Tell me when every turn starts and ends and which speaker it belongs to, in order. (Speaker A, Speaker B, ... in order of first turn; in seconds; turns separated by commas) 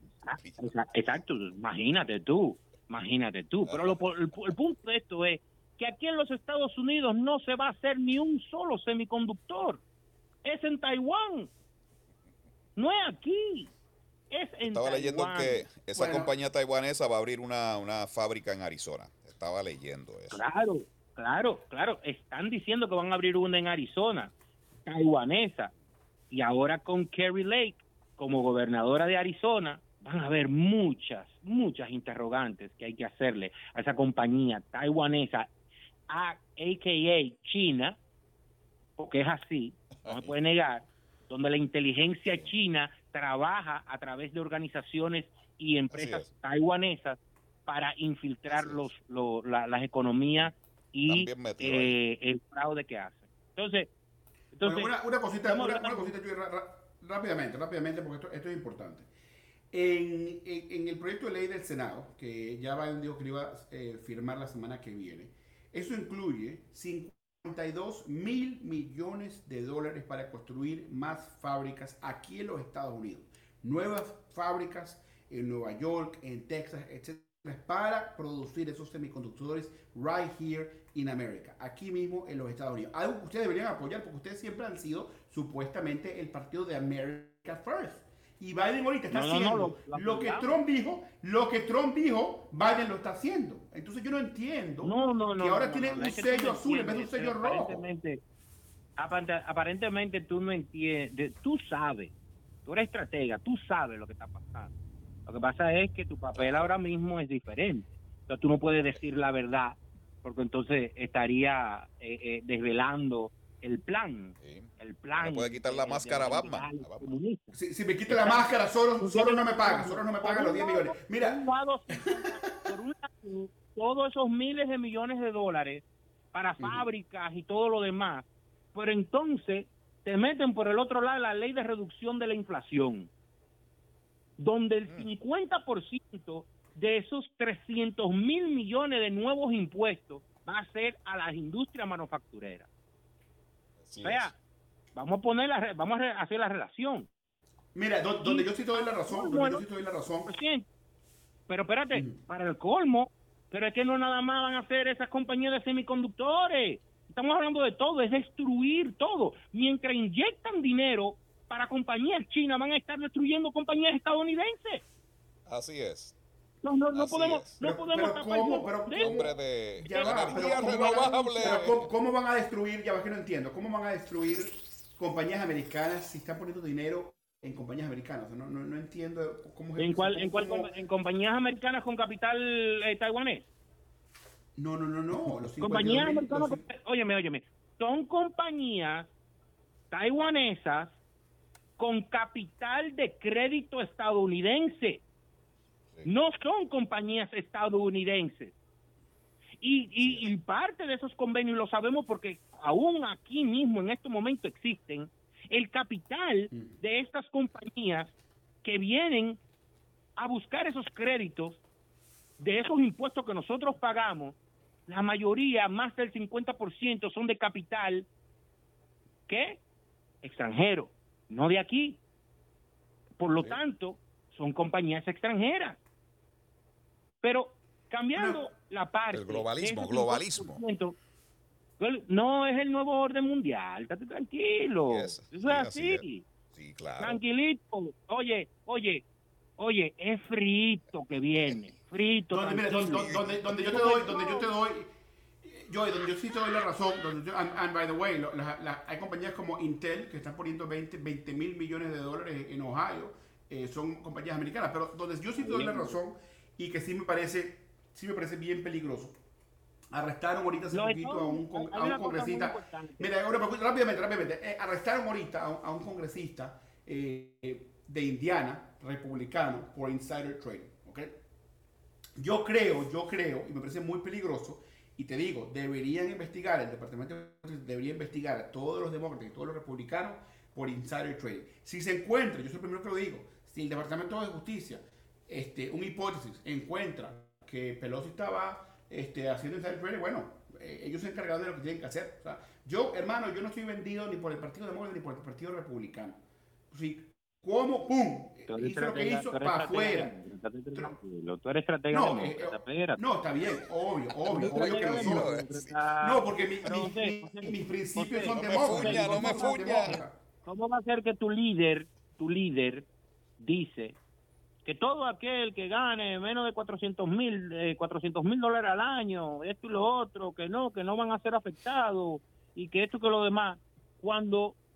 Speaker A: 0.2-9.8, Speaker B: 0.3-0.7, Speaker B: 3.6-4.0, Speaker A: 10.4-11.5, Speaker A: 12.8-13.7, Speaker A: 14.3-15.7, Speaker B: 14.6-20.4, Speaker C: 15.9-16.3, Speaker A: 20.3-24.3, Speaker A: 24.9-25.7, Speaker A: 26.3-35.5, Speaker A: 36.1-38.0, Speaker A: 39.0-53.9, Speaker B: 40.0-40.3, Speaker B: 42.3-42.5, Speaker B: 45.9-46.3, Speaker B: 48.5-48.9, Speaker B: 51.0-52.0, Speaker A: 54.5-56.1, Speaker C: 54.6-59.1, Speaker C: 59.7-97.8, Speaker A: 89.1-90.6, Speaker A: 94.8-98.2, Speaker A: 99.0-102.1, Speaker A: 102.6-104.7, Speaker A: 105.2-117.5, Speaker B: 106.3-106.8, Speaker B: 114.4-117.1, Speaker C: 117.5-121.4, Speaker A: 118.1-118.5, Speaker A: 119.0-133.1, Speaker C: 121.9-122.7, Speaker C: 126.6-126.9, Speaker A: 134.4-142.7, Speaker B: 143.8-144.3, Speaker A: 144.0-144.3, Speaker A: 144.9-147.1, Speaker C: 147.7-150.3, Speaker A: 148.2-149.7, Speaker A: 150.2-150.7, Speaker A: 151.5-164.8, Speaker C: 151.9-152.2, Speaker B: 165.5-166.1, Speaker A: 166.6-169.3, Speaker B: 166.9-167.6, Speaker C: 167.6-180.7, Speaker B: 168.9-171.9, Speaker A: 169.8-171.7, Speaker A: 179.8-183.5, Speaker C: 184.6-186.6, Speaker A: 185.3-189.1, Speaker A: 189.9-191.0, Speaker A: 191.8-195.0, Speaker A: 196.0-198.5, Speaker A: 199.6-208.1, Speaker B: 200.0-200.3, Speaker C: 206.5-206.8, Speaker A: 208.6-209.4, Speaker A: 210.2-211.6, Speaker A: 212.4-214.3, Speaker A: 214.9-218.1, Speaker A: 219.3-219.6, Speaker A: 220.2-222.0, Speaker A: 223.2-225.8, Speaker A: 227.2-230.9, Speaker C: 228.1-228.5, Speaker B: 229.1-230.6, Speaker A: 231.8-236.2, Speaker B: 234.9-237.2, Speaker A: 237.0-239.0, Speaker A: 239.6-244.5, Speaker B: 241.3-241.7, Speaker C: 242.3-244.9, Speaker B: 242.9-243.8, Speaker C: 245.4-259.1, Speaker A: 255.4-256.0, Speaker C: 259.9-271.1, Speaker A: 260.7-263.1, Speaker C: 272.2-296.2, Speaker C: 296.7-300.1, Speaker A: 298.5-303.0, Speaker C: 301.9-305.4, Speaker A: 304.3-312.9, Speaker B: 304.3-305.7, Speaker C: 306.0-310.1, Speaker B: 308.3-310.0, Speaker A: 313.4-314.0, Speaker A: 314.6-324.6